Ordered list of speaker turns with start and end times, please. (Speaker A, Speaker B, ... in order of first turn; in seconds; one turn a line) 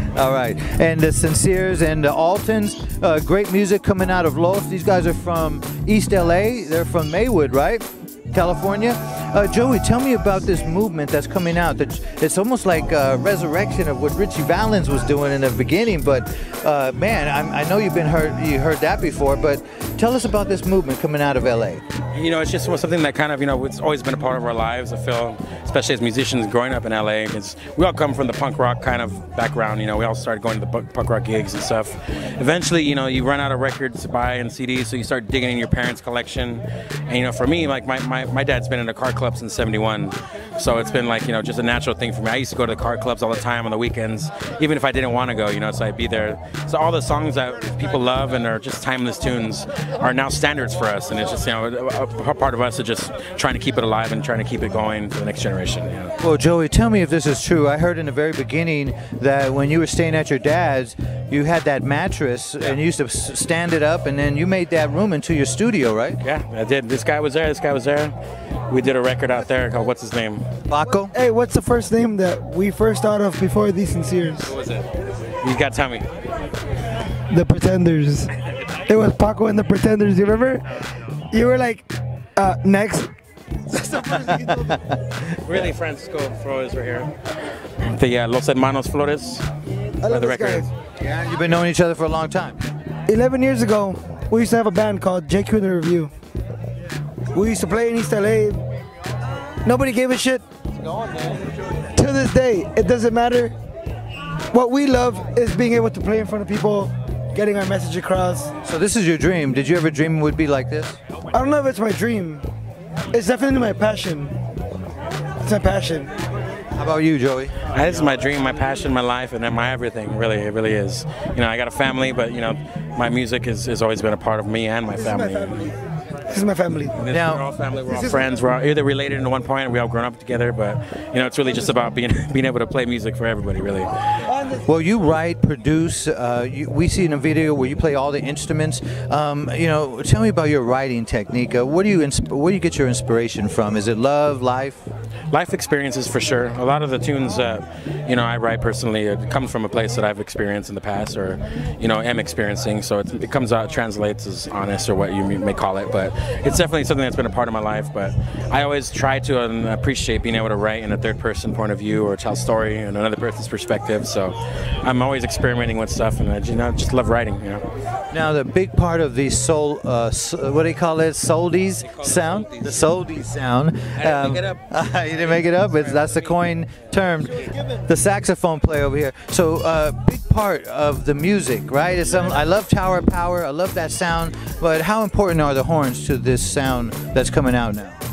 Speaker A: 0.1-21.8
Speaker B: 22.1-56.2
Speaker A: 56.2-66.2
Speaker B: 66.2-68.2
Speaker B: 68.7-70.5
Speaker A: 70.7-71.1
Speaker C: 71.1-74.5
Speaker B: 74.5-74.9
Speaker B: 75.4-76.1
Speaker C: 77.3-78.3
Speaker C: 78.8-83.1
Speaker C: 83.7-84.8
Speaker A: 84.5-85.2
Speaker B: 85.3-89.5
Speaker C: 90.0-90.7
Speaker B: 90.0-90.7
Speaker A: 91.0-92.6
Speaker C: 93.1-96.1
Speaker C: 97.3-98.7
Speaker C: 99.6-100.5
Speaker C: 101.9-103.6
Speaker C: 104.5-108.5
Speaker A: 108.6-111.0
Speaker C: 111.3-112.5
Speaker C: 113.1-114.4
Speaker C: 115.4-116.1
Speaker A: 116.7-117.6
Speaker B: 117.6-125.7
Speaker C: 125.0-125.7
Speaker C: 126.3-127.0
Speaker B: 127.0-133.9
Speaker A: 127.0-127.4
Speaker C: 134.3-134.6
Speaker A: 134.6-144.9
Speaker B: 145.3-167.6
Speaker A: 168.1-188.0
Speaker B: 171.8-172.9
Speaker B: 173.9-176.8